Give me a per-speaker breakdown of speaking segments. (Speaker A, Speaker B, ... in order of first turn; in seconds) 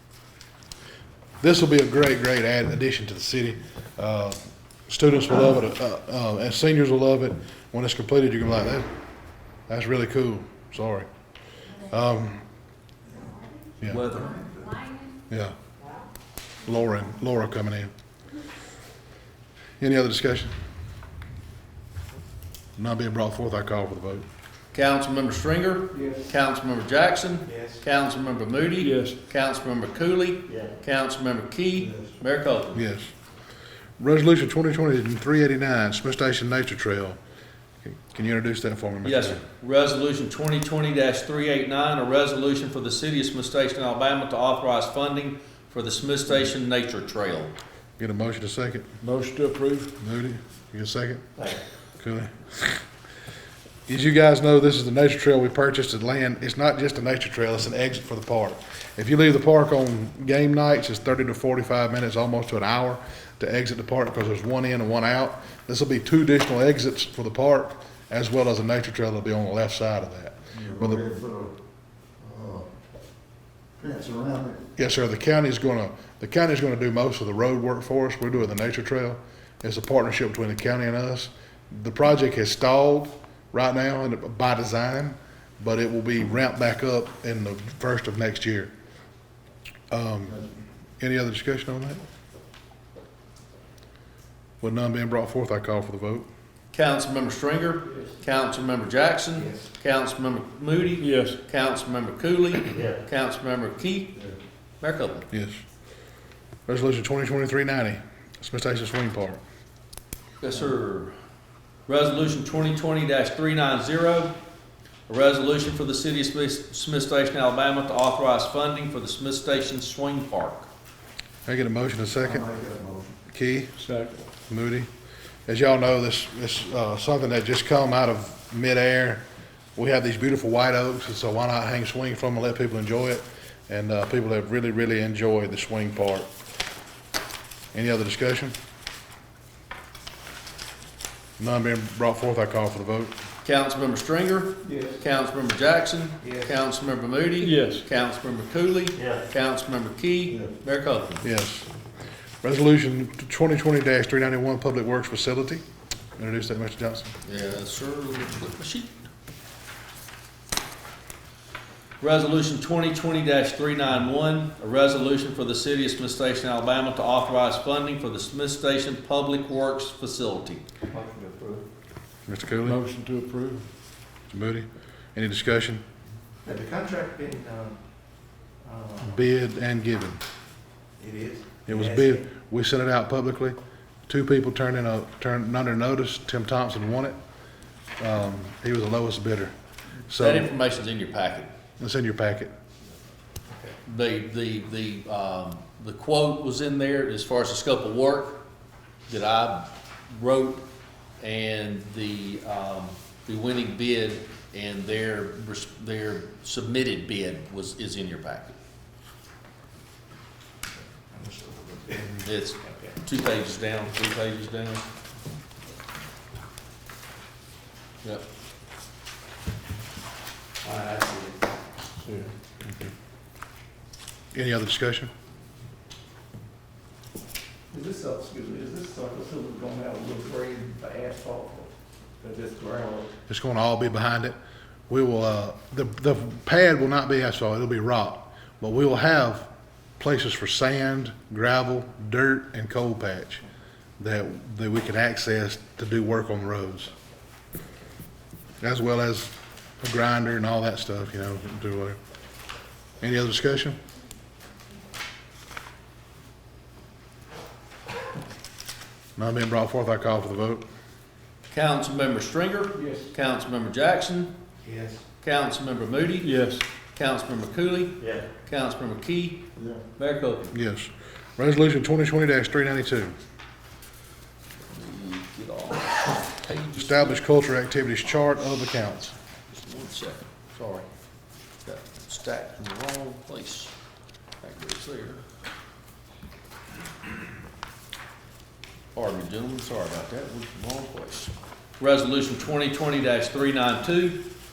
Speaker A: 1.4-8.8, 9.7-11.1, 11.8-12.4, 13.8-14.1, 16.6-17.9, 19.8-20.5, 22.8-24.2, 32.7-33.1, 34.0-37.2, 37.8-39.4, 48.0-48.9, 50.0-51.3, 52.0-52.8, 53.9-71.1, 74.8-88.7, 89.9-90.4, 91.0-92.0, 94.6-96.2, 105.3-105.6, 106.7-109.4, 121.5-122.5, 123.3-123.8, 124.5-124.9, 125.5-129.2, 129.8-136.3, 137.7-138.5, 141.4-143.1, 151.2-151.7, 152.4-155.6, 156.2-157.1, 172.3-172.8, 174.3-175.8, 179.0-180.2, 181.7-183.6, 184.1-187.2, 188.0-189.5, 190.1-190.5, 191.8-192.5, 224.3-225.1, 233.3-234.3, 234.9-243.4, 244.0-246.9, 248.6-252.0, 253.0-253.8, 259.2-260.6, 270.5-273.1, 276.7-279.1
Speaker B: 13.9-14.3, 24.7-32.8, 39.0-47.5, 96.7-104.2, 104.8-105.3, 110.4-111.1, 111.9-114.3, 115.1-120.7, 143.4-151.2, 157.2-158.9, 162.0-170.7, 190.1-191.5, 193.8-198.4, 199.1-200.6, 201.2-208.6, 212.2-214.8, 261.5-264.3, 265.2-266.3, 266.9-269.4, 270.0-270.5, 274.7-277.2, 279.5-280.9, 281.6-283.7, 284.4-285.2, 288.9-294.2
Speaker C: 28.8-29.2, 49.0-49.9, 101.0-101.4, 123.8-124.2, 147.4-147.8, 172.6-173.7, 222.0-222.9, 266.2-266.6
Speaker D: 70.6-71.5, 72.2-72.7, 73.8-74.6, 122.2-123.1
Speaker E: 146.2-146.5, 170.9-171.6, 176.4-177.8, 178.6-179.2, 181.0-182.2, 211.1-212.2, 220.6-221.4, 227.7-233.1, 262.8-263.1, 264.6-265.0